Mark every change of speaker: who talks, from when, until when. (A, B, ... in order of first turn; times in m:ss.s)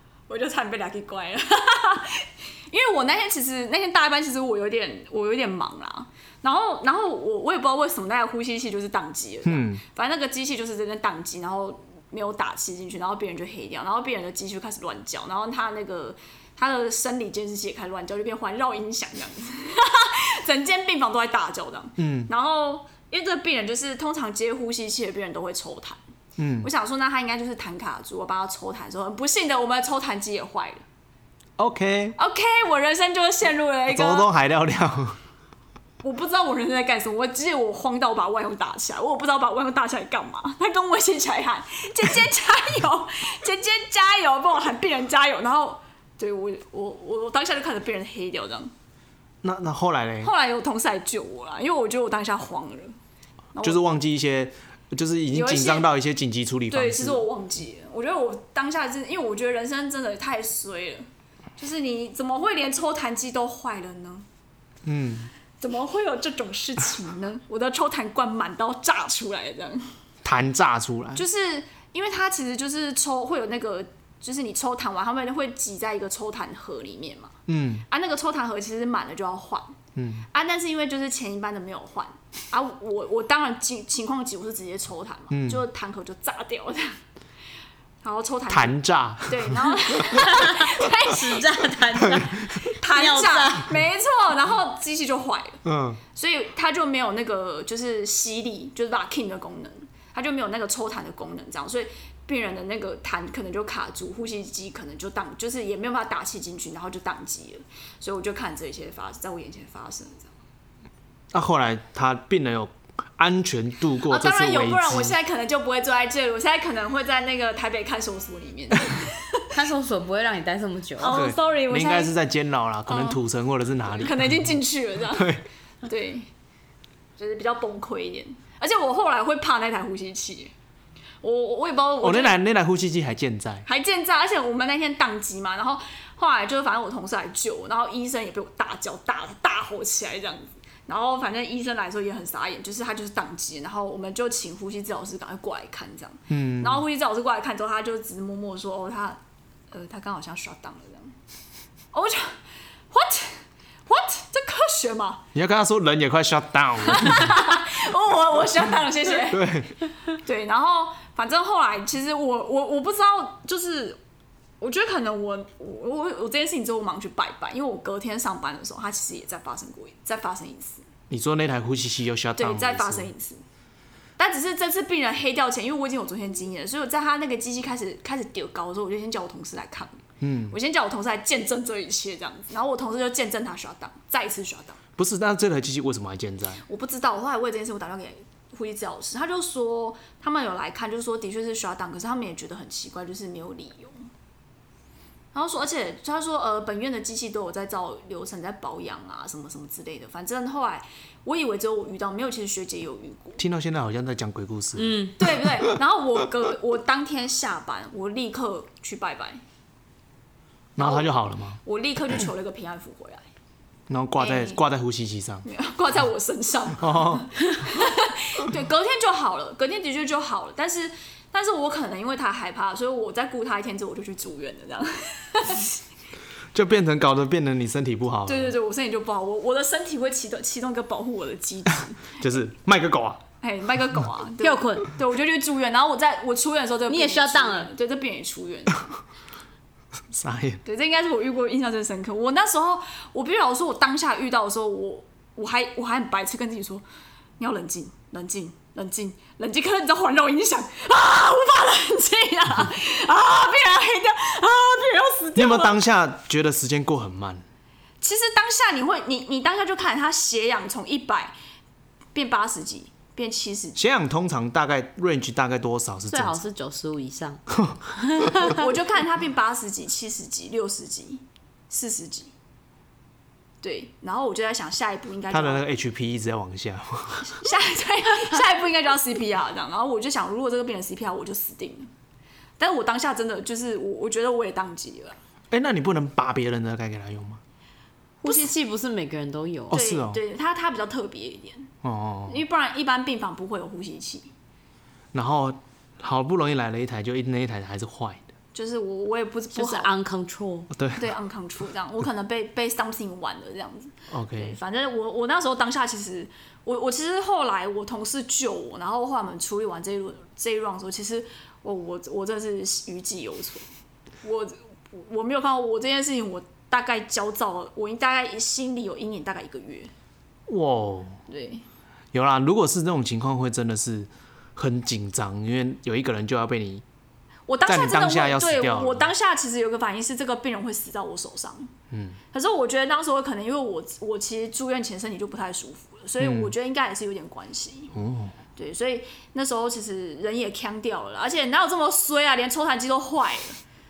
0:00.3-0:26.0 A
0:09.4-0:09.8 B
0:22.0-0:22.3 B
0:26.4-0:26.7 B
0:26.6-0:30.8 A
0:31.6-0:32.2 B
0:32.2-0:34.3 A
0:33.9-0:35.2 B
0:36.0-0:48.7 A
0:49.4-0:50.3 B
0:50.2-0:52.9 A
0:53.5-0:53.8 A
0:53.6-0:57.2 B
0:55.3-0:55.9 A
0:56.7-1:01.0 A
1:01.6-1:04.2 A
1:04.8-1:05.3 B
1:05.6-1:09.9 A
1:10.2-1:11.2 B
1:11.2-1:17.4 A
1:17.5-1:17.8 B
1:17.9-1:19.8 A
1:20.0-1:20.2 B
1:20.3-1:27.0 A
1:25.3-1:25.6 B
1:28.0-1:31.7 A
1:28.5-1:30.0 B
1:30.2-1:33.7 C
1:32.6-1:35.6 A
1:35.6-1:36.0 B
1:36.1-1:50.3 A
1:51.3-1:55.2 B
1:54.1-1:59.4 A
1:59.5-2:01.2 C
2:01.0-2:02.2 A
2:01.1-2:04.5 B
2:02.9-2:03.2 A
2:03.8-2:06.3 A
2:05.1-2:05.4 B
2:07.2-2:10.5 A
2:11.2-2:12.4 A
2:12.0-2:13.6 B
2:13.6-2:29.2 A
2:26.3-2:26.8 B
2:29.7-2:31.1 A
2:31.9-2:32.4 A
2:32.9-2:35.2 A
2:35.3-2:37.3 B
2:36.9-2:39.5 A
2:39.2-2:39.8 B
2:40.1-2:44.0 A
2:44.6-2:50.8 A
2:51.1-2:53.1 B
2:52.4-2:53.4 A
2:54.2-3:04.8 A
3:00.2-3:00.6 B
3:05.0-3:06.6 B
3:06.7-3:14.1 A
3:15.3-3:23.4 A
3:23.4-3:25.5 B
3:24.8-3:25.2 C
3:25.2-3:29.4 A
3:30.8-3:31.6 B
3:30.8-3:33.2 A
3:33.9-3:35.4 B
3:34.2-3:34.6 A
3:35.4-3:45.8 A
3:36.8-3:37.3 B
3:46.5-3:48.5 B
3:48.2-3:52.2 A
3:52.2-3:53.2 B
3:53.4-3:59.0 A
3:54.4-3:54.9 C
3:56.9-3:57.7 C
4:00.1-4:00.6 B
4:00.6-4:06.8 A
4:07.4-4:15.8 A
4:15.3-4:17.4 B
4:18.0-4:21.3 A
4:22.1-4:23.8 A
4:23.8-4:26.4 B
4:26.1-4:27.4 C
4:28.0-4:28.6 C
4:28.4-4:32.3 A
4:33.6-4:35.6 A
4:35.3-4:37.3 B
4:37.3-4:41.9 A
4:42.6-4:45.2 A
4:45.5-4:47.4 B
4:48.2-4:49.8 C
4:49.7-4:50.2 B
4:49.7-4:51.7 A
4:51.8-4:52.4 B
4:52.3-4:54.3 A
4:55.1-4:58.3 B
4:58.5-4:59.9 A
4:59.5-5:00.7 C
5:00.7-5:01.1 B
5:01.0-5:13.7 A
5:04.1-5:04.6 B
5:14.2-5:19.9 A
5:20.5-5:21.2 B
5:21.3-5:21.6 A
5:22.1-5:26.8 B
5:27.5-5:31.7 A
5:27.6-5:29.1 B
5:31.9-5:32.2 B
5:32.3-5:37.9 A
5:36.2-5:36.5 B
5:37.9-5:38.3 B
5:38.6-5:43.6 A